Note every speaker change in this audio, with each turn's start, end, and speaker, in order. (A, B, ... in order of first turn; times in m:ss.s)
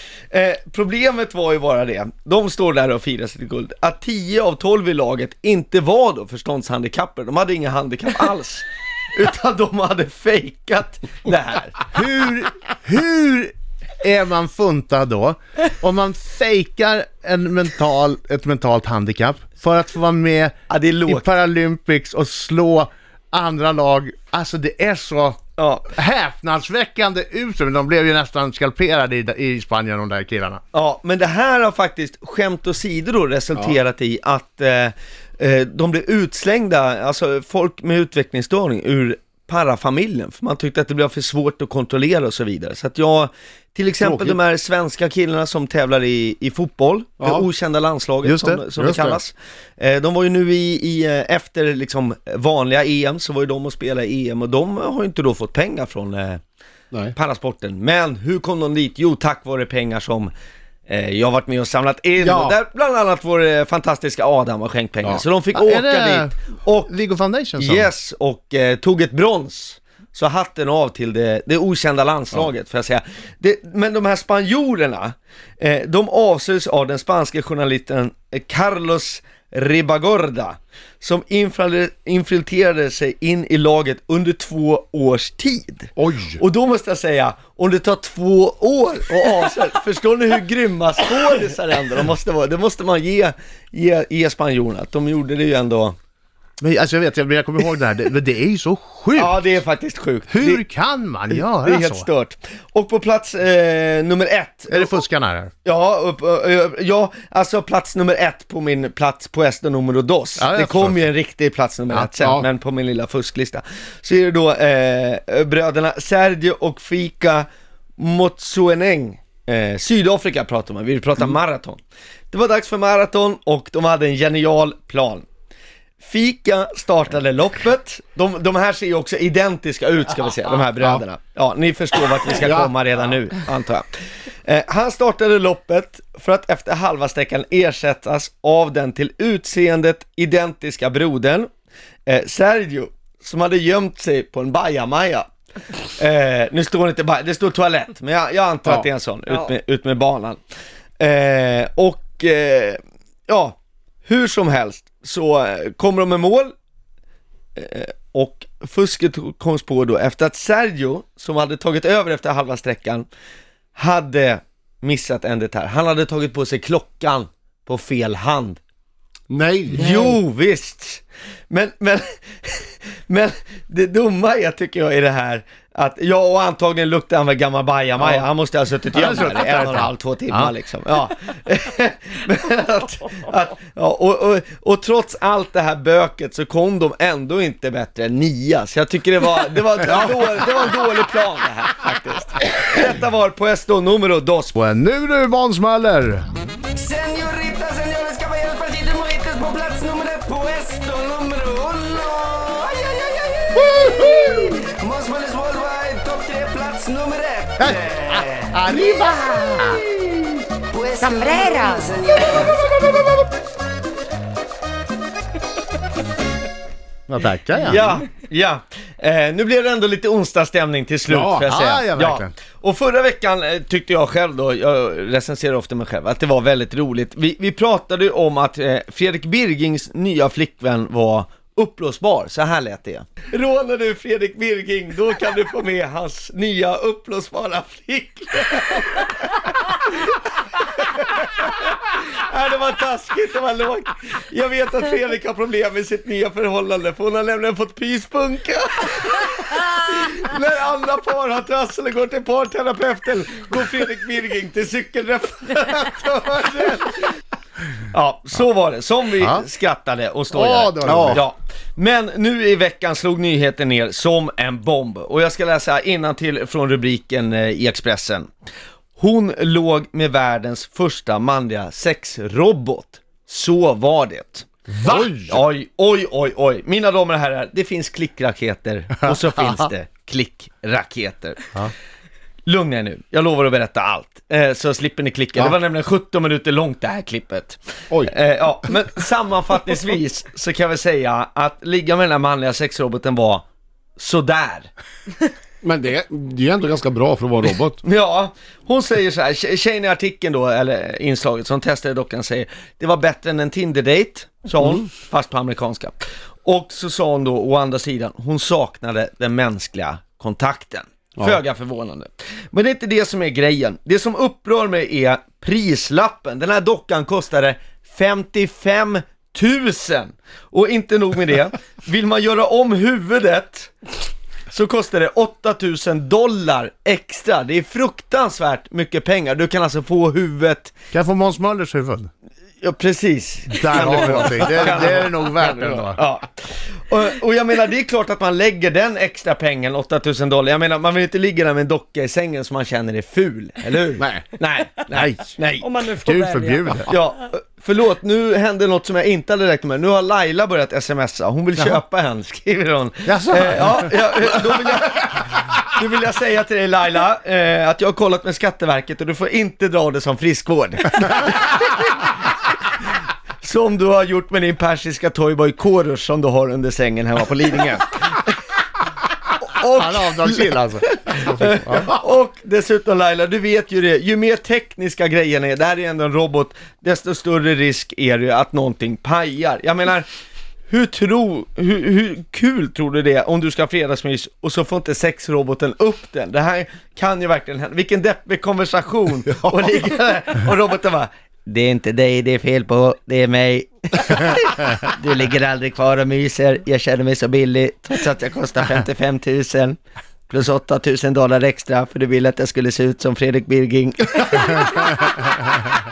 0:00.3-0:11.8 A
0:11.9-0:20.5 B
0:20.7-0:21.3 A
0:21.1-0:25.4 B
0:25.6-0:25.9 A
0:25.9-0:30.6 B
0:30.7-0:56.4 A
0:44.0-0:44.4 C
0:48.2-0:48.6 B
0:48.8-0:49.2 C
0:57.1-1:00.3 A
1:00.9-1:06.9 A
1:02.2-1:02.6 C
1:05.5-1:06.3 B
1:06.9-1:07.9 B
1:07.6-1:36.0 A
1:26.0-1:26.4 C
1:36.6-1:39.4 B
1:39.1-1:40.6 A
1:40.3-1:42.1 B
1:41.3-1:45.0 A
1:44.7-1:45.5 B
1:45.6-1:57.4 A
1:50.4-1:51.0 B
1:52.1-1:52.5 C
1:58.0-2:01.8 A
2:02.3-2:05.2 A
2:06.0-2:13.9 A
2:10.8-2:11.0 C
2:12.4-2:12.8 C
2:14.4-2:21.5 A
2:22.1-2:25.3 A
2:25.8-2:30.4 A
2:31.0-2:36.5 A
2:37.6-2:43.0 A
2:43.8-2:48.6 A
2:49.3-2:50.2 C
2:49.7-3:14.6 A
2:58.9-3:00.5 B
3:14.6-3:16.2 B
3:16.7-3:28.5 D
3:27.6-3:29.8 B
3:30.7-3:32.6 D
3:31.0-3:31.9 E
3:37.1-3:38.0 B
3:37.6-4:17.2 A
3:41.1-3:41.5 C
3:41.5-3:42.3 B
4:17.8-4:28.3 A
4:20.3-4:21.2 B
4:20.8-4:21.2 C
4:29.0-4:41.5 A
4:34.8-4:35.4 C
4:42.4-4:53.4 A
4:54.0-4:54.7 A
4:55.6-4:57.8 C
4:57.8-5:23.7 A
5:24.5-5:30.7 A
5:30.9-5:32.1 B
5:32.6-5:45.7 A
5:33.5-5:36.0 B
5:44.0-5:44.3 C
5:44.9-5:45.4 B
5:45.6-5:46.8 E
5:45.9-5:46.9 B
5:46.8-6:02.8 A
5:53.0-5:53.9 B
6:03.4-6:08.4 A
6:09.4-6:20.1 A
6:09.8-6:11.9 B
6:20.7-6:39.8 A
6:40.3-6:45.3 A